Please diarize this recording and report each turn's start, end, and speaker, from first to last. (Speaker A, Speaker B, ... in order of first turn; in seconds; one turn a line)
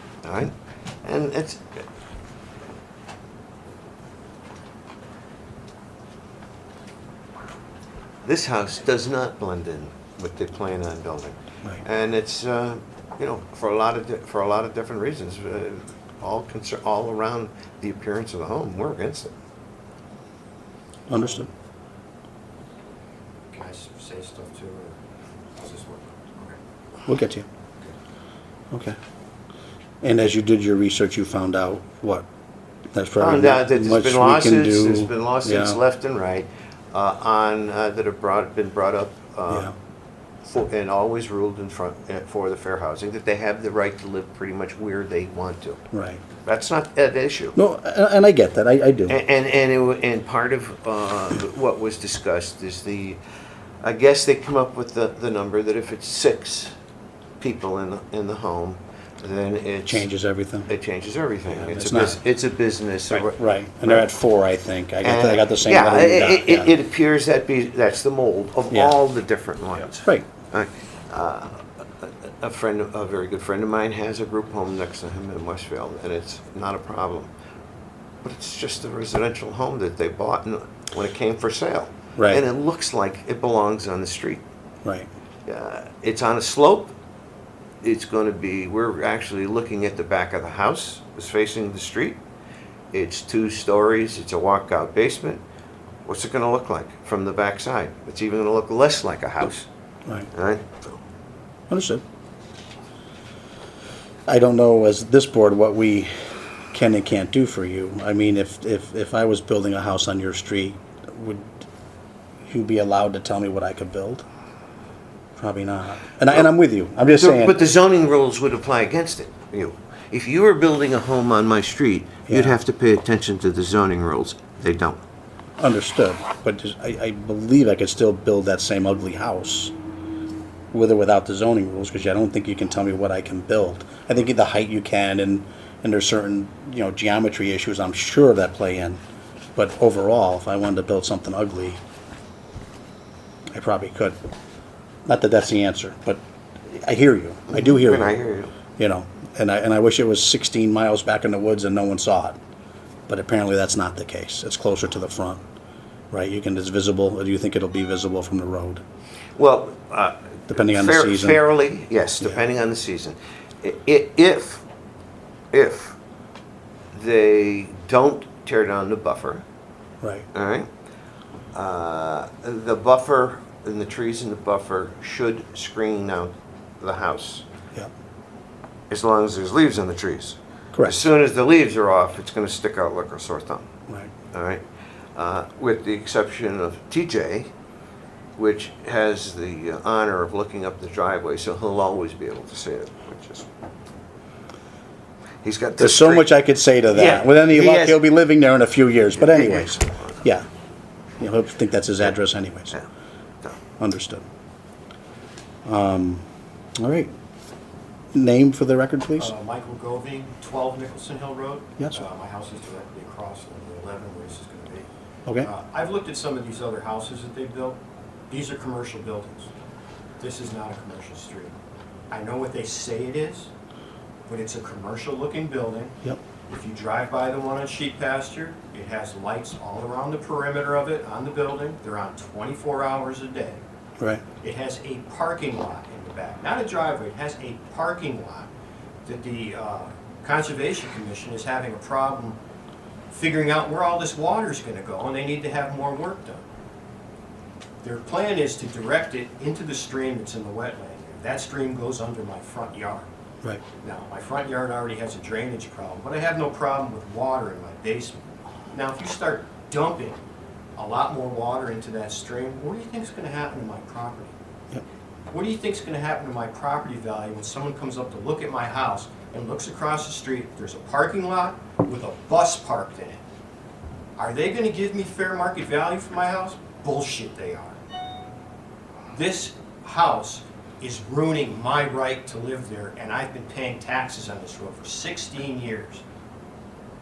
Speaker A: 0.2-1.8
Speaker A: 8.2-19.3
Speaker B: 21.1-21.5
Speaker C: 23.5-25.0
Speaker C: 25.6-26.6
Speaker B: 27.1-27.5
Speaker B: 28.7-29.0
Speaker B: 30.0-32.3
Speaker B: 32.9-35.8
Speaker A: 33.2-39.7
Speaker A: 40.4-45.8
Speaker B: 45.9-46.2
Speaker A: 46.4-47.6
Speaker B: 47.6-49.2
Speaker A: 49.1-53.2
Speaker A: 53.8-56.7
Speaker A: 57.4-60.1
Speaker B: 59.9-60.7
Speaker A: 60.7-64.0
Speaker B: 61.5-62.2
Speaker B: 63.1-66.7
Speaker A: 65.0-77.3
Speaker B: 68.7-69.0
Speaker B: 69.9-70.2
Speaker A: 78.2-84.4
Speaker B: 82.2-82.4
Speaker B: 84.8-85.1
Speaker A: 85.5-86.9
Speaker A: 87.8-92.2
Speaker A: 92.9-95.4
Speaker A: 96.1-99.7
Speaker A: 100.3-100.9
Speaker B: 101.7-102.0
Speaker B: 104.3-111.6
Speaker B: 112.5-114.2
Speaker B: 115.4-117.6
Speaker A: 117.1-125.0
Speaker B: 122.3-122.5
Speaker B: 125.6-129.7
Speaker B: 130.7-139.0
Speaker B: 139.6-141.8
Speaker B: 143.5-144.2
Speaker B: 145.1-148.2
Speaker A: 147.5-148.5
Speaker B: 148.8-152.4
Speaker B: 153.1-155.4
Speaker B: 156.1-158.8
Speaker A: 159.4-164.7
Speaker B: 160.5-161.4
Speaker A: 165.5-166.0
Speaker A: 166.9-169.4
Speaker B: 170.0-170.3
Speaker A: 170.3-170.7
Speaker A: 171.5-177.4
Speaker A: 178.9-183.7
Speaker B: 180.7-181.1
Speaker A: 184.3-184.6
Speaker A: 185.2-187.5
Speaker A: 188.4-193.5
Speaker A: 195.4-196.3
Speaker B: 195.8-200.4
Speaker A: 196.9-198.0
Speaker A: 199.2-200.2
Speaker B: 201.2-202.7
Speaker B: 203.8-204.2
Speaker B: 205.7-206.2
Speaker B: 206.8-207.1
Speaker B: 208.1-209.3
Speaker C: 209.2-214.9
Speaker C: 215.4-217.8
Speaker C: 218.3-219.5
Speaker C: 220.2-221.5
Speaker C: 222.1-223.5
Speaker C: 224.3-225.9
Speaker C: 226.5-233.6
Speaker C: 234.4-238.5
Speaker C: 239.1-242.4
Speaker C: 243.1-246.4
Speaker C: 247.8-253.1
Speaker C: 253.8-258.2
Speaker C: 258.7-260.2
Speaker C: 260.8-264.3
Speaker C: 265.3-273.2
Speaker C: 274.2-277.8
Speaker C: 279.1-286.0